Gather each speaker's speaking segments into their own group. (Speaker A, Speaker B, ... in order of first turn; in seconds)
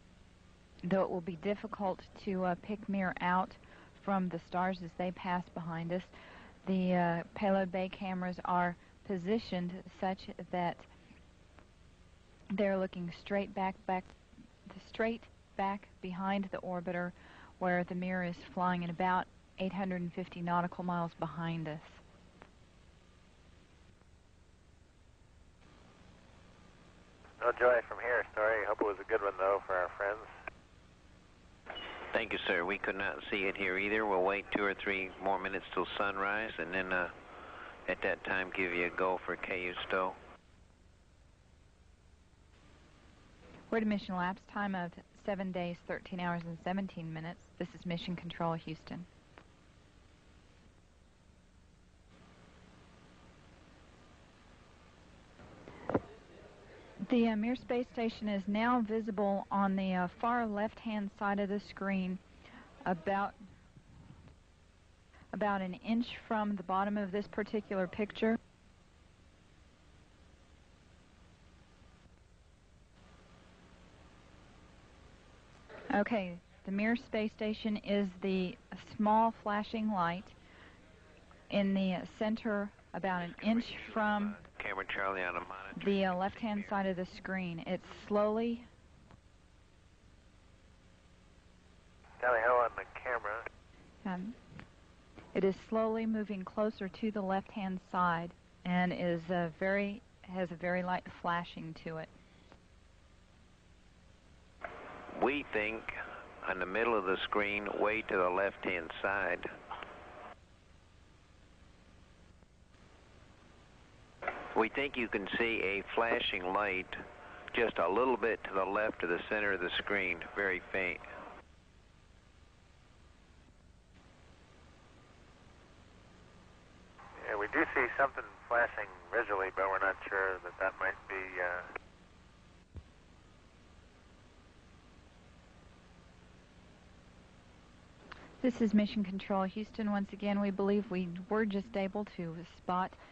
Speaker A: 0.8-6.1, 6.6-10.9, 12.5-14.1, 14.7-22.0, 43.7-49.1, 57.0-62.2, 62.8-63.4, 65.3-68.4, 75.9-80.4, 81.5-84.4, 85.7-88.7, 94.0-94.3, 95.3-102.1, 138.4-143.0
Speaker B: 27.4-30.3, 92.2-93.4, 127.2-131.7
Speaker C: 31.8-37.1, 37.9-40.2, 83.2-86.8, 105.1-109.6, 114.2-121.0